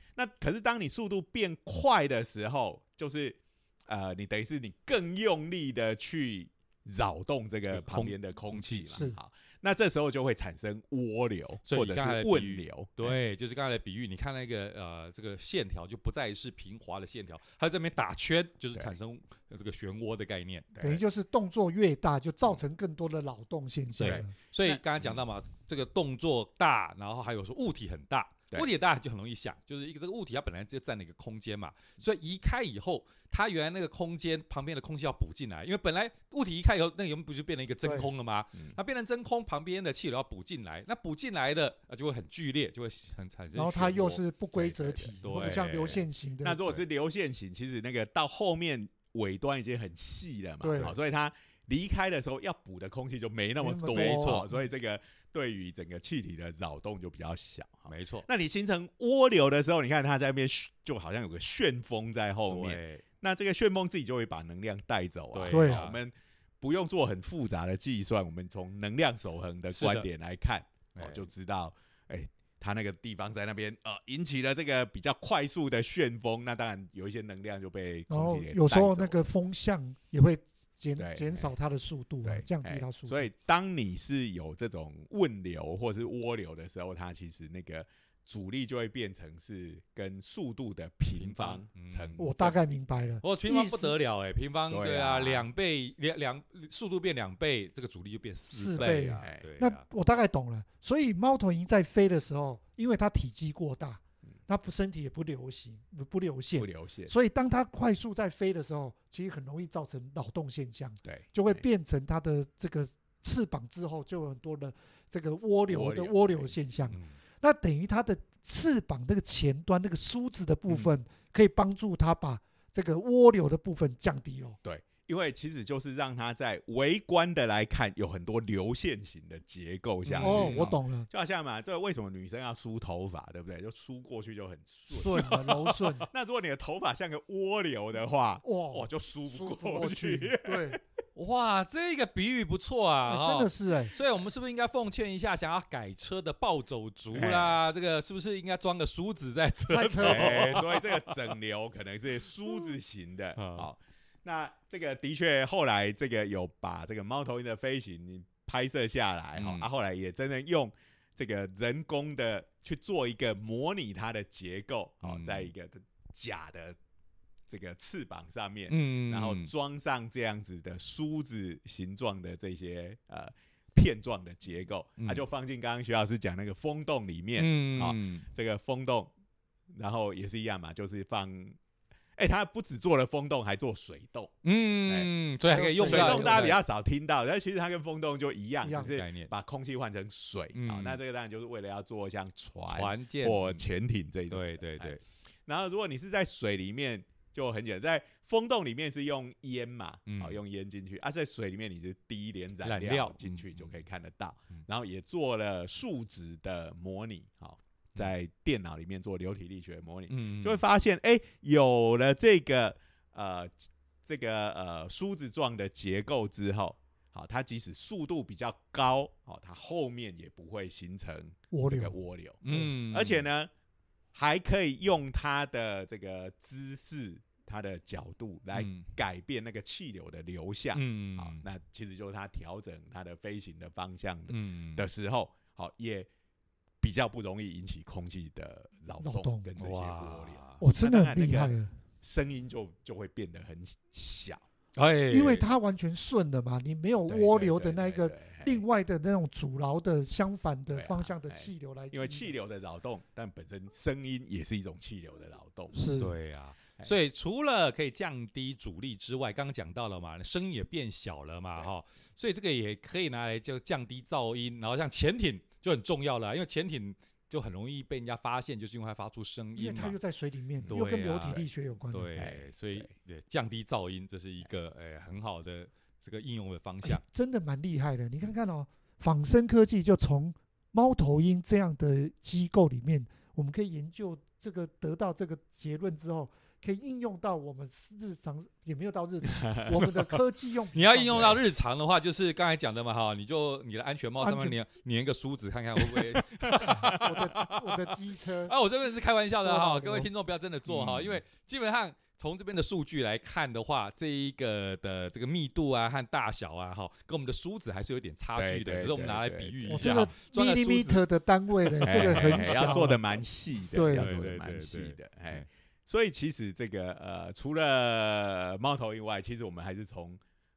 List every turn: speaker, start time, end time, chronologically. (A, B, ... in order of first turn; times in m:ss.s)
0:00.2-0:13.2 A
0:07.7-0:09.0 B
0:11.7-0:20.7 B
0:20.7-0:21.0 A
0:20.8-0:24.3 C
0:24.0-0:44.2 B
0:24.0-0:25.2 A
0:43.6-0:46.6 C
0:44.6-0:45.1 A
0:45.2-0:46.0 B
0:46.4-1:19.3 A
0:50.6-0:50.9 C
0:53.6-0:54.6 C
0:53.9-0:54.5 B
0:57.9-0:58.3 B
1:02.5-1:03.0 B
1:05.3-1:06.0 B
1:05.5-1:05.8 C
1:09.7-1:10.1 B
1:11.0-1:11.3 B
1:18.1-1:23.3 C
1:21.0-1:21.5 A
1:22.2-1:32.6 A
1:31.2-1:32.2 B
1:32.2-1:33.9 C
1:33.2-1:39.8 B
1:34.7-1:35.5 A
1:38.5-2:04.6 C
1:46.6-1:47.1 A
1:51.0-1:51.6 A
1:55.7-1:56.9 A
2:04.6-2:20.8 A
2:10.1-2:10.8 B
2:10.2-2:11.1 C
2:14.9-2:16.1 C
2:18.4-2:20.8 C
2:21.2-2:31.2 B
2:23.1-2:24.0 C
2:27.1-2:27.6 A
2:29.7-2:30.6 C
2:30.0-2:46.8 A
2:33.4-2:33.7 B
2:39.4-2:39.7 B
2:45.0-2:45.5 B
2:47.5-2:59.1 A
2:48.7-2:49.5 B
2:55.0-2:55.2 B
2:57.4-2:58.2 B
2:59.7-3:01.6 A
3:02.2-3:05.1 A
3:04.4-3:06.6 B
3:05.5-3:06.5 C
3:05.8-3:43.5 A
3:08.6-3:08.9 C
3:08.8-3:09.3 B
3:10.6-3:11.0 B
3:12.7-3:13.6 B
3:14.3-3:15.0 B
3:20.1-3:20.4 B
3:22.6-3:23.8 B
3:30.1-3:30.6 B
3:41.5-3:42.0 C
3:42.4-3:43.3 B
3:44.1-3:56.1 A
3:48.5-3:48.9 B
3:50.8-3:51.4 B
3:54.3-3:54.9 B
3:56.8-4:04.4 A
3:59.0-3:59.5 C
3:59.6-4:00.6 B
4:00.6-4:01.7 C
4:04.8-4:05.4 B
4:05.1-4:12.3 C
4:07.1-4:08.6 A
4:10.7-4:15.7 A
4:15.7-4:16.1 C
4:16.0-4:30.0 B
4:29.6-4:32.1 C
4:30.7-4:37.0 B
4:32.2-4:32.9 A
4:36.8-4:51.4 C
4:49.3-4:49.8 A
4:50.7-4:57.9 B
4:54.2-4:54.6 C
4:55.8-4:57.2 A
4:56.6-4:58.5 C
4:58.5-5:11.1 B
4:59.4-5:00.1 C
5:00.7-5:01.2 A
5:08.4-5:10.1 A
5:09.7-5:13.0 C
5:11.6-5:13.0 B
5:11.9-5:20.2 A
5:13.7-5:14.1 C
5:14.0-5:15.5 B